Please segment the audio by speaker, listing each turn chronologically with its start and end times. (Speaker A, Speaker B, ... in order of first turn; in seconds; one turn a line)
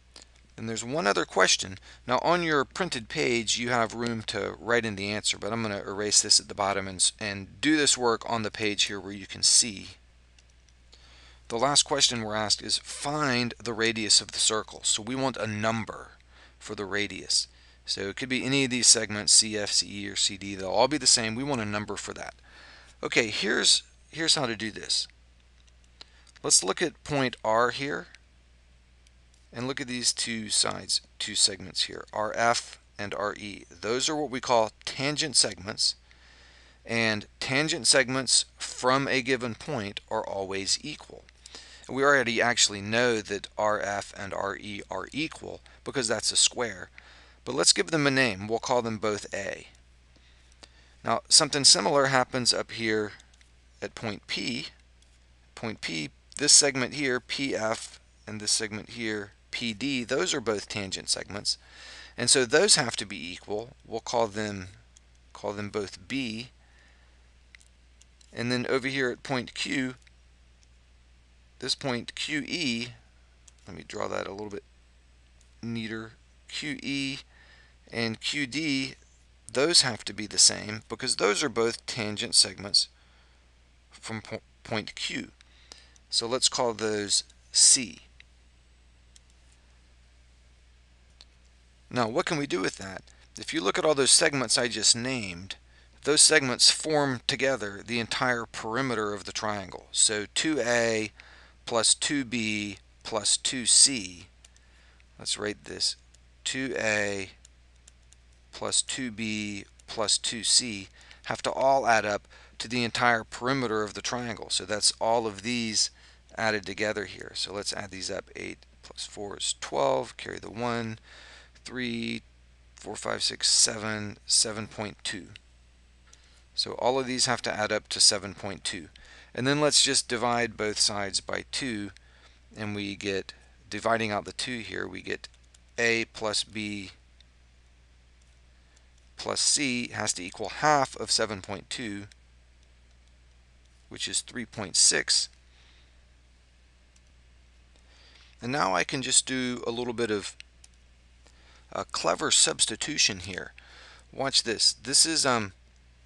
Speaker A: 0.6-10.0
Speaker A: 11.5-22.4
Speaker A: 23.0-25.1
Speaker A: 26.4-28.1
Speaker A: 29.5-36.0
Speaker A: 36.8-41.3
Speaker A: 41.9-46.9
Speaker A: 47.4-49.7
Speaker A: 51.0-53.1
Speaker A: 53.8-54.7
Speaker A: 55.5-61.6
Speaker A: 62.2-64.7
Speaker A: 65.3-66.5
Speaker A: 68.3-70.0
Speaker A: 71.6-72.9
Speaker A: 73.7-74.6
Speaker A: 75.6-77.2
Speaker A: 77.9-82.9
Speaker A: 83.9-85.3
Speaker A: 86.1-88.1
Speaker A: 91.9-101.1
Speaker A: 101.7-104.3
Speaker A: 105.2-107.3
Speaker A: 108.5-121.0
Speaker A: 121.6-122.2
Speaker A: 122.8-125.3
Speaker A: 126.5-131.9
Speaker A: 132.5-136.9
Speaker A: 139.2-142.1
Speaker A: 143.9-145.3
Speaker A: 148.4-150.4
Speaker A: 151.7-153.5
Speaker A: 154.1-155.5